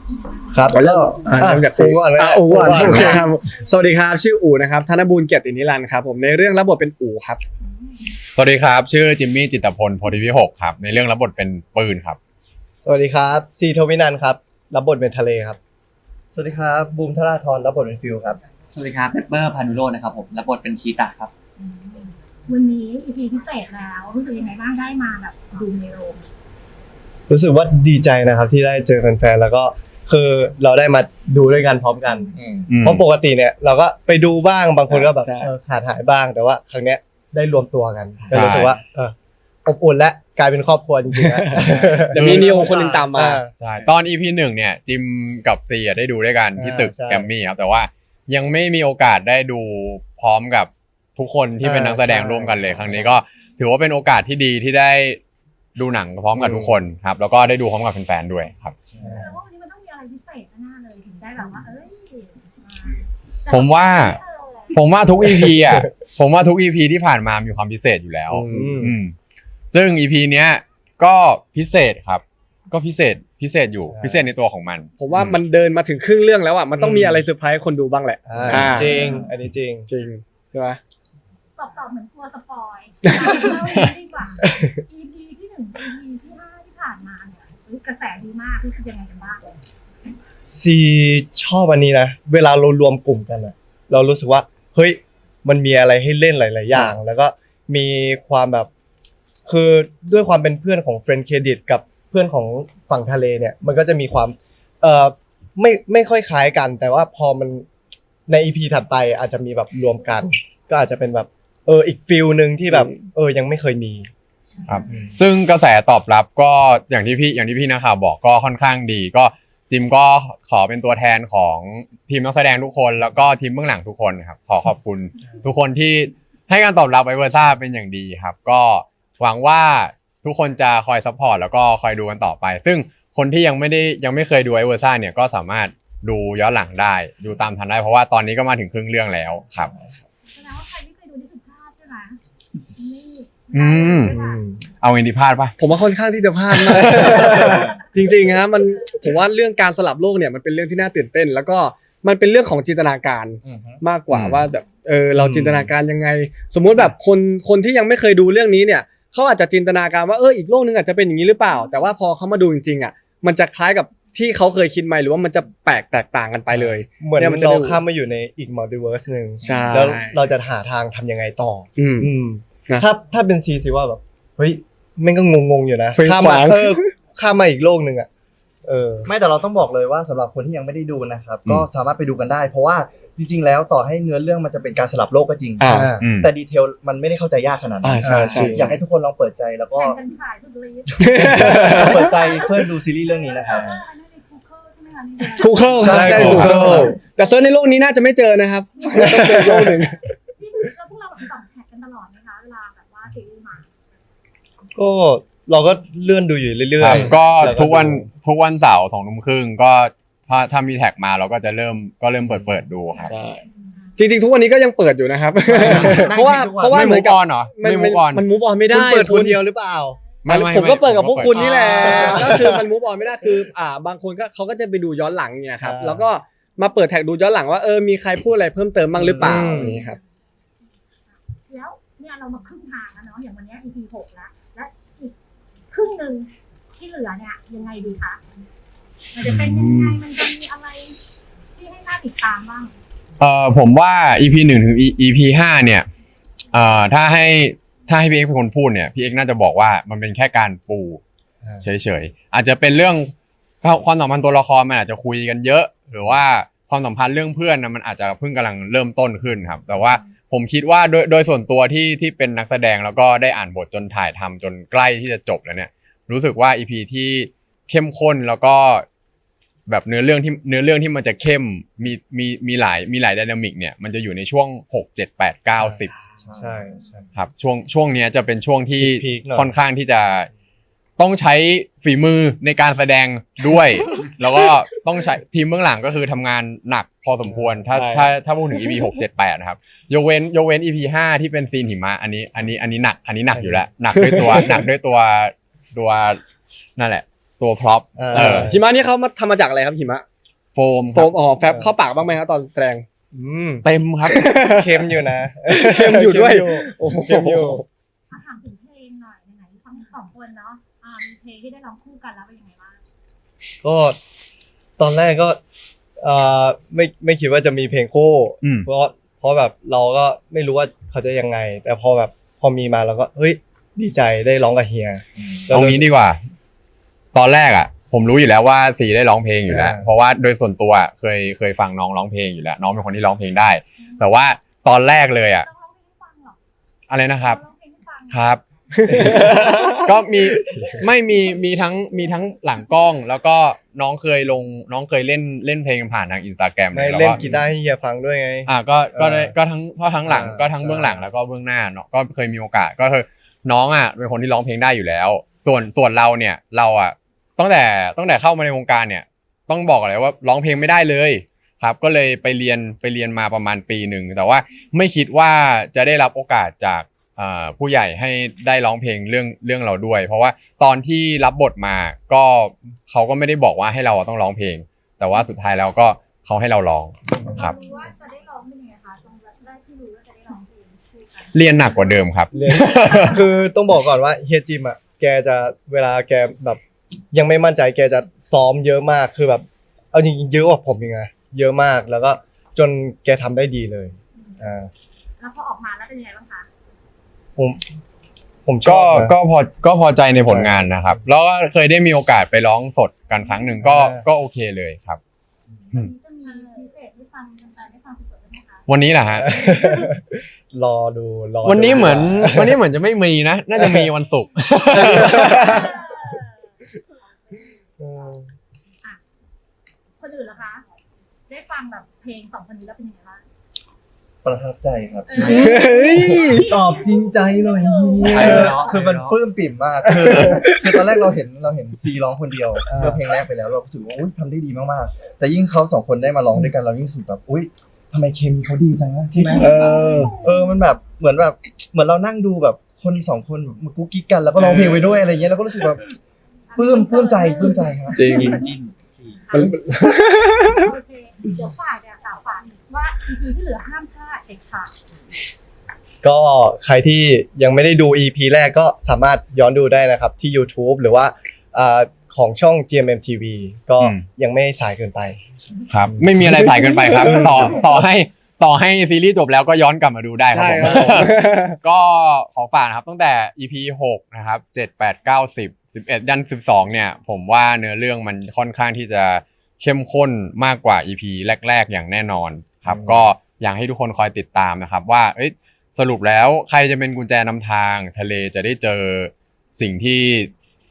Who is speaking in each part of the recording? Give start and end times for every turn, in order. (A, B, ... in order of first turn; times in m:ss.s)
0:00.5-0:03.2 A
0:00.7-0:07.4 B
0:08.4-0:12.2 C
0:12.8-0:15.6 A
0:16.3-0:18.4 D
0:18.7-0:21.3 E
0:21.6-0:26.2 F
0:27.3-0:39.1 A
0:32.4-0:32.7 D
0:32.7-0:33.0 C
0:34.9-0:35.5 B
0:38.3-0:38.8 C
0:39.6-0:43.5 A
0:41.2-0:43.4 B
0:41.6-0:42.6 C
0:42.7-0:43.1 D
0:43.6-0:55.2 C
0:46.6-0:47.3 A
0:51.6-0:53.1 A
0:55.8-0:58.8 C
0:58.9-0:59.2 D
0:59.0-1:04.8 F
1:03.5-1:04.2 C
1:04.7-1:09.1 C
1:05.4-1:05.8 A
1:08.3-1:08.8 B
1:08.5-1:09.0 A
1:09.7-1:15.4 C
1:13.9-1:14.3 A
1:15.0-1:19.2 B
1:16.8-1:17.2 A
1:18.3-1:19.9 A
1:19.9-1:20.8 B
1:21.6-1:29.4 F
1:23.1-1:23.5 B
1:24.4-1:24.8 A
1:30.5-1:38.7 A
1:39.5-1:47.7 A
1:48.3-1:54.1 A
1:54.7-2:19.7 C
2:20.3-2:22.2 F
2:22.8-2:24.4 F
2:23.5-2:24.2 C
2:24.1-2:24.6 A
2:24.8-2:25.6 C
2:25.6-2:47.8 B
2:26.5-2:27.5 C
2:27.2-2:27.5 A
2:33.4-2:33.8 D
2:34.1-2:34.5 C
2:35.2-2:35.7 A
2:46.6-2:58.1 A
2:49.4-2:50.2 B
2:51.8-2:52.1 B
2:55.9-2:56.9 B
2:58.6-2:59.1 A
2:59.0-3:10.0 D
3:05.6-3:05.9 B
3:05.7-3:06.0 A
3:06.0-3:06.3 C
3:07.8-3:08.7 B
3:08.0-3:08.7 A
3:09.8-3:17.0 F
3:11.0-3:12.2 B
3:11.1-3:13.9 D
3:15.4-3:20.0 B
3:15.8-3:16.8 D
3:15.8-3:17.0 A
3:16.1-3:16.6 C
3:18.8-3:19.2 F
3:19.0-3:19.7 A
3:20.4-3:23.7 F
3:24.7-3:28.0 A
3:26.8-3:33.1 C
3:33.1-3:33.4 B
3:34.0-3:39.4 B
3:35.5-3:36.9 D
3:35.8-3:36.1 A
3:36.7-3:38.2 C
3:38.7-3:40.0 A
3:40.2-3:42.2 C
3:40.3-3:50.0 B
3:41.3-3:42.6 A
3:45.6-3:46.1 A
3:49.0-3:49.7 A
3:51.5-3:55.2 F
3:55.7-3:58.2 F
3:59.1-4:01.0 F
3:59.2-3:59.7 C
4:01.5-4:02.7 F
4:03.2-4:05.9 C
4:06.5-4:11.0 C
4:11.6-4:13.1 C
4:13.6-4:28.9 C
4:29.7-4:35.9 C
4:35.6-4:35.8 A
4:36.2-4:36.6 D
4:36.4-4:37.0 A
4:37.2-4:40.3 C
4:38.8-4:39.5 A
4:41.0-4:56.2 C
4:47.2-4:47.6 A
4:47.7-4:48.1 B
4:53.3-4:53.6 A
4:54.0-4:54.6 B
4:56.8-4:58.5 C
4:58.0-4:58.6 A
4:58.1-5:00.0 B
5:00.6-5:01.1 C
5:00.9-5:02.9 B
5:01.4-5:01.7 A
5:03.1-5:03.7 A
5:03.6-5:04.2 C
5:04.0-5:07.6 B
5:04.4-5:07.6 A
5:08.1-5:12.8 F
5:13.6-5:14.0 A
5:14.8-5:15.4 A
5:16.0-5:25.8 A
5:18.4-5:18.7 C
5:25.2-5:25.5 D
5:25.5-5:26.2 C
5:27.1-5:35.5 C
5:29.5-5:29.9 A
5:33.8-5:34.1 F
5:35.4-5:36.4 F
5:36.9-5:37.4 C
5:37.2-5:38.3 F
5:38.1-5:47.4 C
5:38.8-5:39.8 B
5:38.9-5:39.8 A
5:39.4-5:39.9 F
5:40.3-5:40.9 A
5:46.7-5:49.3 A
5:48.5-6:17.6 C
5:50.0-5:51.0 A
6:17.4-6:21.3 F
6:21.3-6:23.2 C
6:22.3-6:26.6 A
6:27.1-6:34.7 A
6:35.2-6:36.5 F
6:37.4-6:37.6 A
6:38.4-6:39.2 A
6:38.6-6:45.0 C
6:40.1-6:41.0 A
6:43.6-6:44.0 A
6:45.7-6:48.7 F
6:48.7-6:49.3 C
6:49.2-6:52.6 A
6:51.4-6:55.5 C
6:53.6-6:53.9 A
6:54.7-6:55.7 A
6:55.2-6:56.1 F
6:55.4-6:55.6 B
6:57.8-6:58.2 A
7:00.0-7:00.6 F
7:01.3-7:03.2 F
7:04.2-7:05.6 D
7:05.1-7:08.6 F
7:05.2-7:06.5 B
7:06.3-7:08.5 A
7:08.0-7:26.0 D
7:08.1-7:09.2 E
7:09.8-7:11.0 B
7:12.7-7:13.0 A
7:19.3-7:20.1 B
7:19.3-7:20.6 F
7:24.4-7:24.8 B
7:26.5-7:28.6 F
7:26.6-7:28.1 D
7:27.9-7:28.3 B
7:28.2-7:29.2 E
7:29.2-7:34.7 F
7:29.3-7:30.7 B
7:36.0-7:45.2 A
7:43.8-7:44.0 C
7:45.7-8:10.3 C
7:47.0-7:47.5 B
7:50.3-7:51.6 B
7:50.6-7:51.0 A
8:02.7-8:03.1 D